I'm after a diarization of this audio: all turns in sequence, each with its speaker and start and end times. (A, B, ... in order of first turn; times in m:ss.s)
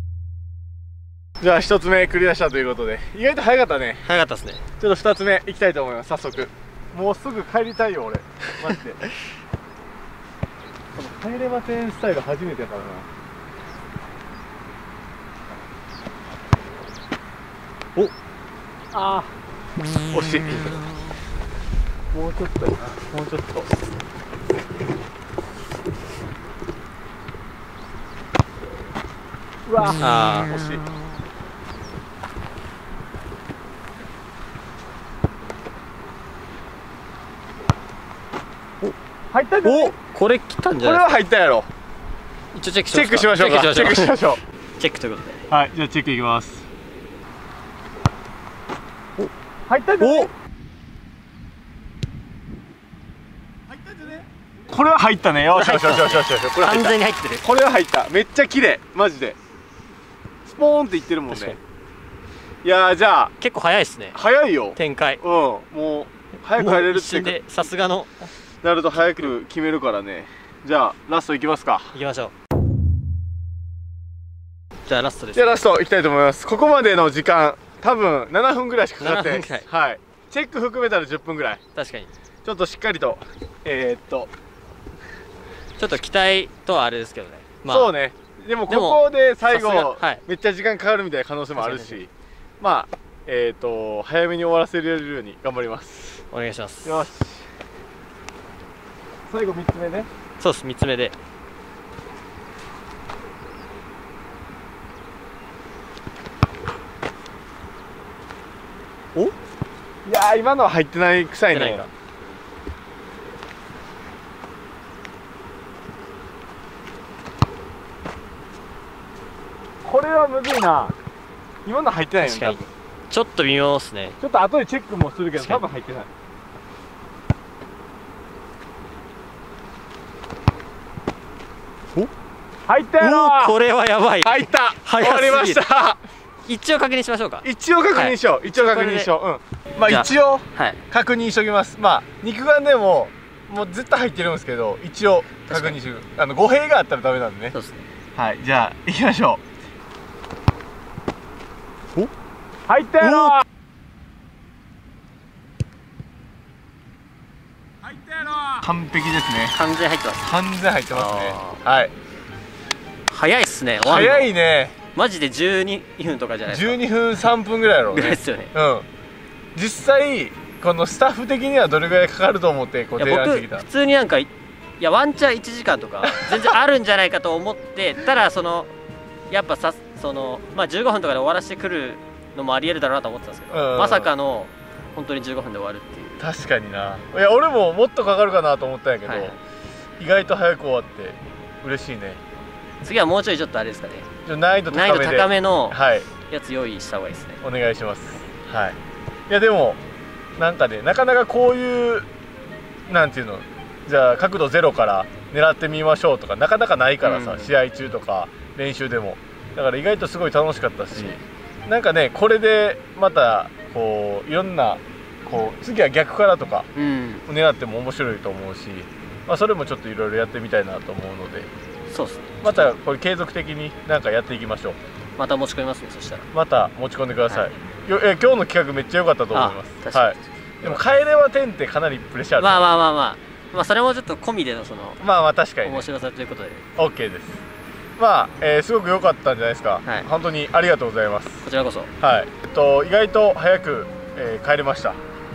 0:01.4-0:04.0 A
0:04.0-0:04.6 B
0:04.8-0:09.0 A
0:10.9-0:13.1 A
0:18.9-0:19.3 A
0:20.1-0:20.8 A
0:22.1-0:23.0 A
0:23.0-0:23.8 B
0:29.6-0:30.8 A
0:30.0-0:30.5 B
0:39.3-0:39.9 A
0:39.6-0:41.1 B
0:40.8-0:41.7 A
0:42.5-0:44.2 B
0:42.9-0:44.4 A
0:44.8-0:45.4 B
0:45.5-0:46.6 A
0:49.7-0:50.3 A
0:50.0-0:50.3 B
0:53.8-0:59.4 A
0:55.5-0:57.5 B
1:00.5-1:01.6 A
1:01.3-1:01.6 B
1:02.6-1:03.3 A
1:03.4-1:04.2 B
1:04.1-1:07.6 A
1:04.8-1:05.2 B
1:06.5-1:08.2 B
1:08.6-1:12.0 A
1:11.9-1:12.3 B
1:14.9-1:15.6 B
1:15.3-1:21.6 A
1:19.0-1:19.6 B
1:21.7-1:22.1 B
1:22.4-1:24.3 A
1:25.8-1:27.9 B
1:27.7-1:36.2 A
1:28.7-1:30.2 B
1:31.6-1:32.0 B
1:36.3-1:37.1 B
1:36.8-1:37.4 A
1:39.3-1:40.1 A
1:40.4-1:41.1 B
1:50.0-1:51.8 A
1:51.5-1:51.9 B
1:59.8-2:00.9 A
2:01.6-2:02.7 A
2:02.2-2:04.2 B
2:04.2-2:06.1 A
2:05.3-2:05.6 B
2:12.7-2:13.6 A
2:13.0-2:15.6 B
2:14.2-2:16.0 A
2:16.4-2:19.1 B
2:17.4-2:27.6 A
2:19.8-2:20.8 B
2:25.5-2:25.8 B
2:27.5-2:27.8 B
2:28.2-2:29.4 A
2:32.7-2:33.4 A
2:33.0-2:33.4 B
2:38.4-2:39.6 A
2:39.5-2:40.3 B
2:40.2-2:41.9 A
2:40.9-2:41.6 B
2:43.1-2:44.3 B
2:43.8-2:44.8 A
2:44.9-2:46.8 B
2:46.5-2:48.8 A
2:47.9-2:48.5 B
2:49.6-2:53.6 A
2:53.0-2:58.7 B
2:56.0-2:56.5 A
2:59.3-3:06.2 B
3:03.5-3:04.1 A
3:06.2-3:09.4 A
3:09.0-3:09.4 B
3:10.0-3:12.2 A
3:12.8-3:14.1 B
3:14.2-3:16.1 A
3:14.7-3:17.4 B
3:17.4-3:18.8 A
3:19.3-3:19.8 A
3:20.4-3:22.0 A
3:22.9-3:36.7 A
3:27.0-3:27.5 B
3:36.7-3:37.2 B
3:37.3-3:41.5 A
3:41.9-3:42.7 B
3:42.4-3:44.8 A
3:45.2-3:46.3 B
3:46.3-3:52.7 A
3:49.3-3:50.8 B
3:52.4-3:55.0 B
3:55.0-3:55.9 A
3:55.6-3:56.7 B
3:56.8-3:57.4 A
3:58.0-4:01.4 A
4:01.4-4:01.9 B
4:02.0-4:05.0 A